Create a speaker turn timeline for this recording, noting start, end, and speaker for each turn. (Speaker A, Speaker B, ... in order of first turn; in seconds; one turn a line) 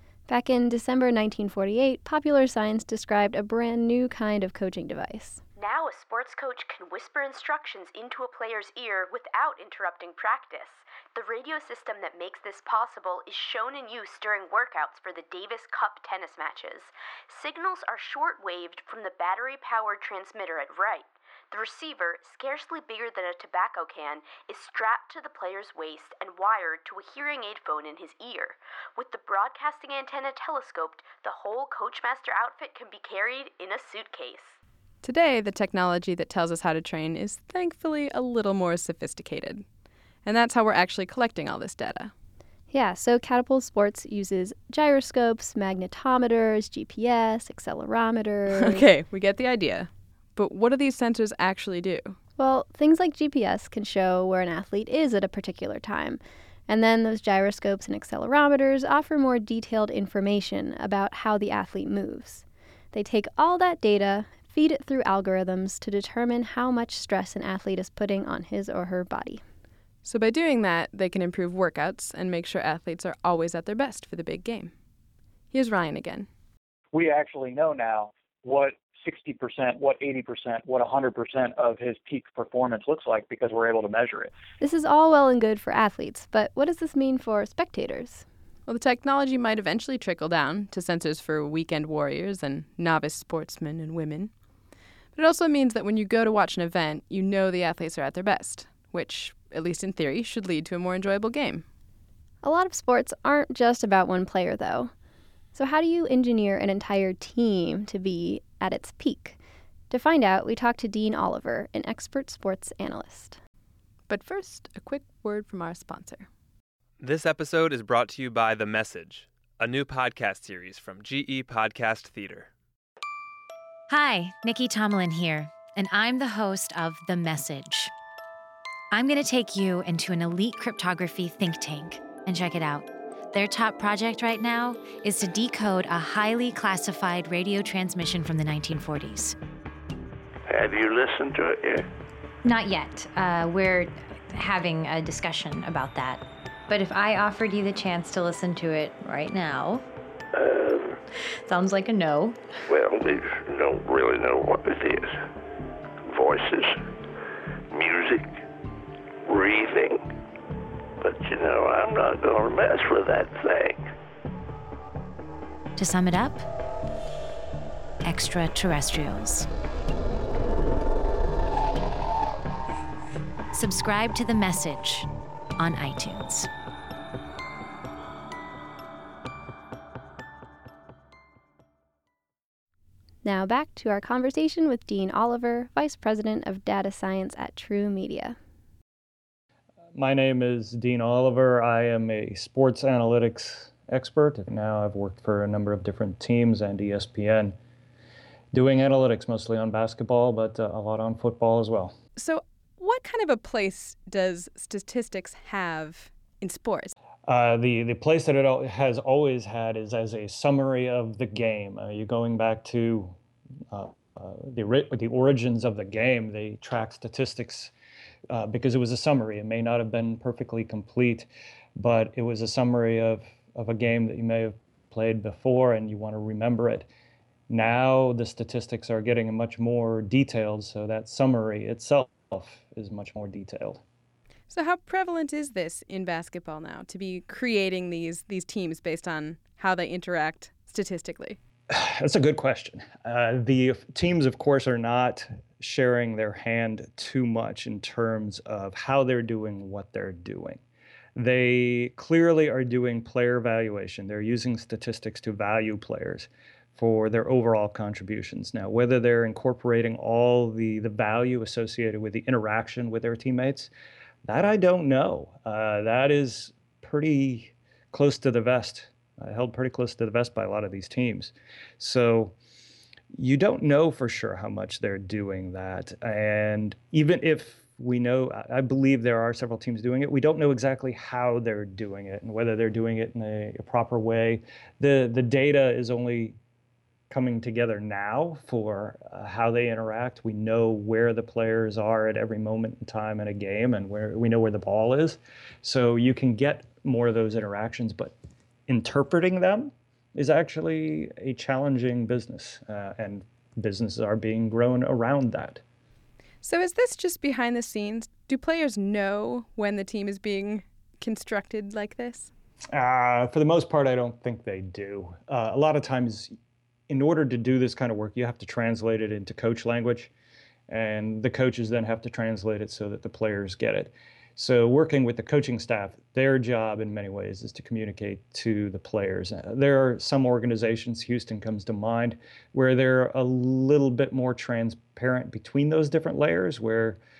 Speaker A: 0.3-5.4
Speaker B: 5.6-34.6
Speaker C: 35.0-39.6
Speaker C: 40.2-42.1
Speaker A: 42.7-48.9
Speaker C: 48.5-52.2
Speaker A: 52.4-69.4
Speaker C: 70.0-74.7
Speaker C: 75.5-76.3
Speaker D: 76.9-84.3
Speaker A: 84.6-88.2
Speaker C: 88.7-94.3
Speaker C: 95.2-101.7
Speaker A: 102.4-104.9
Speaker A: 105.5-109.4
Speaker A: 109.9-113.4
Speaker C: 114.1-116.3
Speaker E: 117.0-122.5
Speaker F: 123.9-127.9
Speaker F: 128.9-139.4
Speaker G: 140.5-141.9
Speaker H: 142.4-149.9
Speaker G: 150.3-151.0
Speaker H: 151.5-152.5
Speaker G: 152.7-155.2
Speaker G: 156.1-156.8
Speaker G: 157.7-158.4
Speaker G: 159.3-160.1
Speaker G: 161.0-163.9
Speaker F: 165.8-166.4
Speaker F: 168.1-169.5
Speaker F: 173.5-176.5
Speaker A: 183.2-188.4
Speaker I: 189.9-197.6
Speaker I: 198.5-201.9
Speaker C: 202.2-206.9
Speaker I: 207.3-213.2
Speaker I: 213.7-217.7
Speaker I: 218.3-226.9
Speaker I: 227.5-233.8
Speaker C: 234.5-241.4
Speaker I: 241.7-250.6
Speaker I: 251.2-263.7
Speaker I: 264.2-272.4
Speaker I: 273.1-286.4
Speaker I: 287.1-298.1
Speaker I: 298.7-305.6
Speaker C: 306.4-312.3
Speaker I: 312.7-316.3
Speaker I: 316.9-320.1
Speaker I: 320.7-337.0